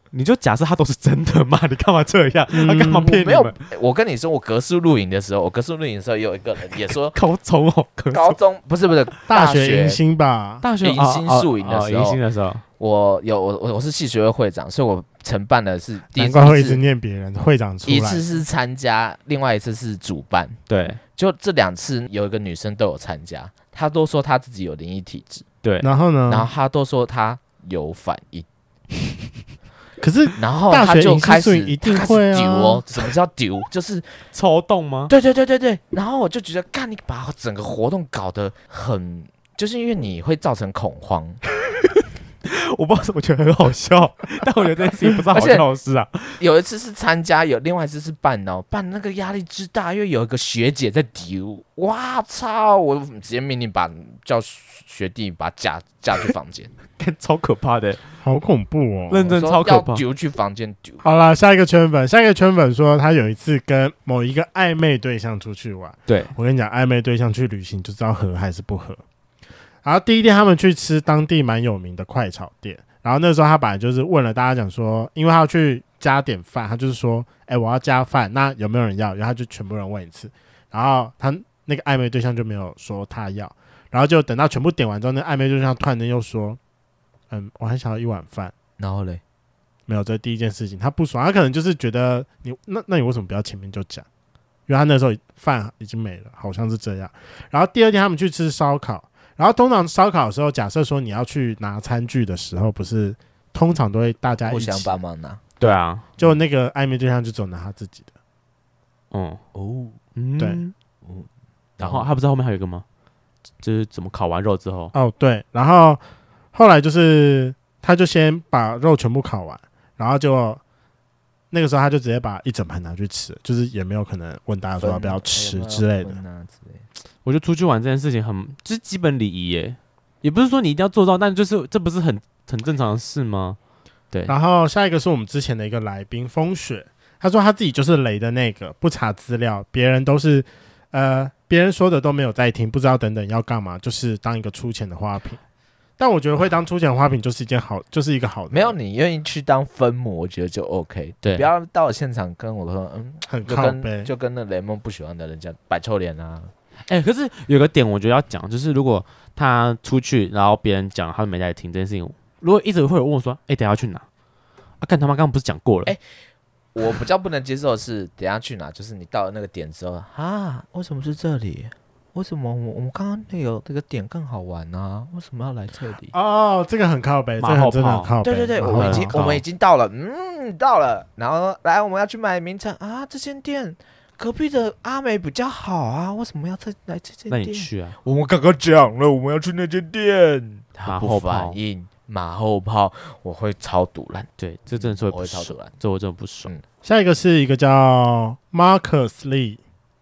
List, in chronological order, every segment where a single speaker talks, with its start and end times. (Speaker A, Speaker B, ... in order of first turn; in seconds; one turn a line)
Speaker A: 0.1-3.6
Speaker B: 2.5-3.1
Speaker C: 2.9-7.2
Speaker A: 7.1-8.3
Speaker C: 8.1-10.0
Speaker B: 9.3-10.6
Speaker A: 10.6-12.6
Speaker C: 10.8-12.2
Speaker C: 12.8-16.8
Speaker B: 16.1-18.2
Speaker C: 17.9-25.4
Speaker A: 20.7-21.0
Speaker A: 25.6-25.9
Speaker B: 25.8-26.5
Speaker C: 26.3-28.5
Speaker B: 30.0-32.9
Speaker C: 30.4-34.2
Speaker A: 34.3-35.1
Speaker C: 35.1-41.4
Speaker A: 42.4-46.4
Speaker C: 45.3-45.6
Speaker C: 46.4-56.7
Speaker A: 57.0-58.0
Speaker B: 58.2-59.3
Speaker A: 59.1-60.0
Speaker C: 59.3-61.0
Speaker B: 61.0-69.0
Speaker A: 66.1-66.3
Speaker B: 69.8-86.6
Speaker B: 87.3-88.5
Speaker C: 88.8-89.2
Speaker B: 89.9-94.0
Speaker B: 94.7-104.9
Speaker C: 104.5-105.5
Speaker A: 105.6-106.0
Speaker B: 105.7-108.1
Speaker A: 109.1-109.4
Speaker C: 109.5-110.0
Speaker A: 110.2-110.7
Speaker C: 111.0-112.1
Speaker A: 111.8-112.8
Speaker A: 113.6-114.9
Speaker B: 114.9-116.0
Speaker B: 116.5-120.6
Speaker B: 121.5-126.2
Speaker C: 124.8-126.9
Speaker A: 127.2-133.6
Speaker A: 134.1-134.3
Speaker B: 134.3-145.4
Speaker B: 146.0-148.8
Speaker C: 148.5-156.5
Speaker A: 151.2-151.5
Speaker B: 153.3-154.1
Speaker A: 156.9-164.0
Speaker A: 164.8-165.9
Speaker C: 166.7-176.1
Speaker B: 176.1-179.2
Speaker A: 177.4-179.4
Speaker C: 178.2-195.7
Speaker A: 187.3-187.9
Speaker A: 190.8-191.6
Speaker A: 194.4-196.5
Speaker B: 196.8-199.6